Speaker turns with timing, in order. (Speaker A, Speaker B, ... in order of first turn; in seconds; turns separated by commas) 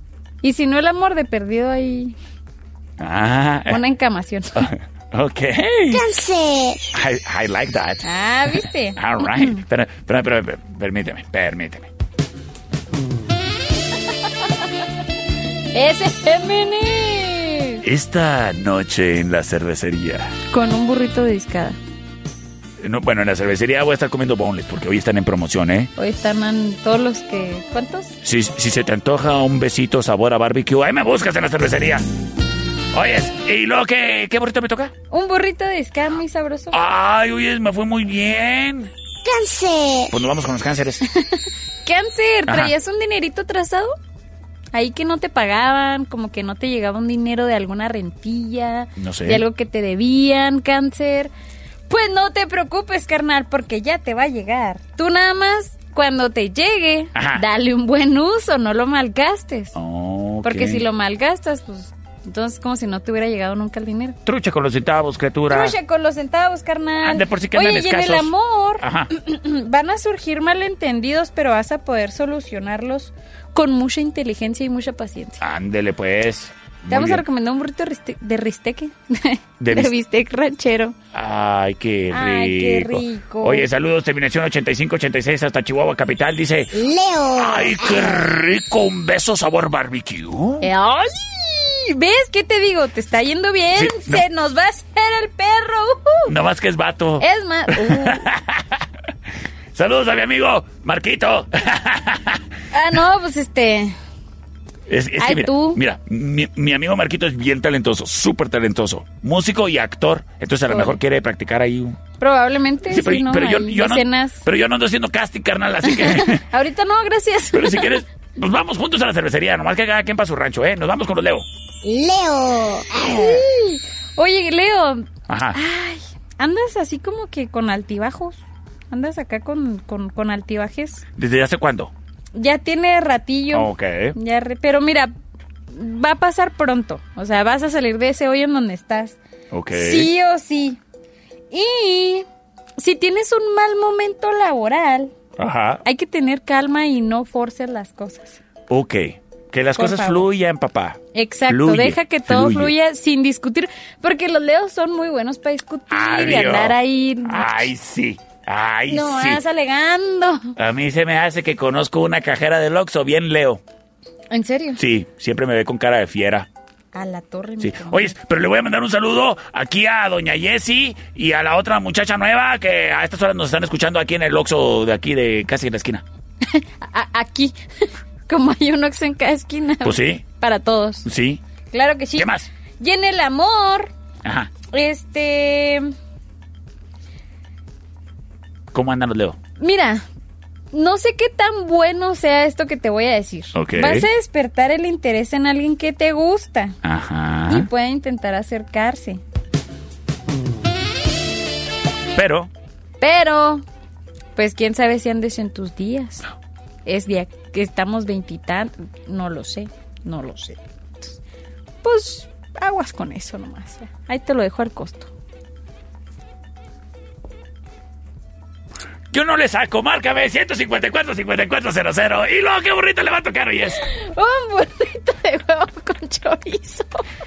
Speaker A: 0.4-2.2, Speaker B: 3.0-3.8, Speaker A: 3.7-4.7, Speaker B: 4.5-6.1, Speaker C: 5.9-6.8, Speaker B: 6.9-11.9, Speaker A: 8.0-9.6, Speaker A: 15.7-17.8, Speaker B: 17.8-20.4, Speaker A: 20.5-21.8, Speaker B: 22.8-25.9, Speaker A: 26.0-28.2, Speaker B: 28.2-32.1, Speaker B: 32.9-34.9, Speaker A: 35.1-36.8, Speaker B: 36.7-38.9, Speaker C: 39.2-40.1, Speaker B: 40.1-41.0, Speaker A: 41.1-43.9, Speaker B: 42.5-42.7, Speaker A: 44.7-51.3, Speaker B: 49.0-49.4, Speaker A: 51.9-59.8, Speaker B: 57.1-57.4, Speaker B: 59.8-60.8, Speaker A: 60.4-64.2, Speaker B: 64.2-65.8, Speaker A: 65.5-75.4, Speaker B: 67.0-69.1, Speaker B: 75.4-77.2, Speaker A: 76.9-81.0, Speaker B: 79.6-79.9, Speaker B: 81.1-86.8, Speaker A: 82.1-83.7, Speaker C: 86.7-88.1, Speaker B: 87.3-90.7, Speaker A: 90.6-96.3, Speaker B: 93.8-94.3, Speaker B: 96.3-98.8, Speaker A: 97.2-98.3, Speaker B: 99.7-102.4, Speaker A: 102.7-104.0, Speaker B: 104.9-112.0, Speaker A: 105.2-105.8, Speaker A: 110.7-111.0, Speaker A: 112.2-114.4, Speaker B: 112.9-116.4, Speaker A: 115.8-118.0, Speaker B: 117.5-121.5, Speaker C: 121.8-123.5, Speaker A: 123.1-128.4, Speaker B: 125.3-125.6, Speaker A: 128.9-131.1, Speaker B: 131.2-131.9, Speaker A: 132.3-135.1, Speaker B: 133.5-134.2, Speaker A: 135.7-139.2, Speaker B: 139.5-140.1, Speaker A: 139.7-140.8, Speaker A: 141.5-142.3, Speaker A: 142.8-145.1, Speaker B: 145.4-145.8, Speaker A: 145.8-148.4, Speaker B: 148.7-152.8, Speaker A: 149.8-150.3, Speaker A: 151.1-157.7, Speaker B: 155.9-159.4, Speaker A: 158.9-160.6, Speaker B: 160.6-163.6, Speaker A: 164.3-164.8, Speaker B: 164.8-166.5, Speaker A: 166.9-168.2, Speaker B: 167.6-176.0, Speaker A: 176.4-177.6, Speaker A: 178.3-181.1, Speaker B: 179.8-180.2, Speaker B: 181.1-181.4, Speaker A: 181.7-183.9, Speaker B: 182.2-182.5, Speaker B: 184.2-184.5, Speaker A: 184.7-185.9, Speaker B: 188.7-189.4, Speaker A: 189.6-190.0, Speaker A: 190.7-196.8, Speaker B: 193.5-194.1, Speaker B: 196.8-197.7, Speaker A: 197.5-199.2, Speaker B: 202.1-202.5, Speaker A: 203.0-203.6, Speaker A: 204.4-206.3, Speaker A: 206.8-211.2, Speaker A: 211.8-215.1, Speaker B: 219.1-223.8, Speaker A: 223.9-227.1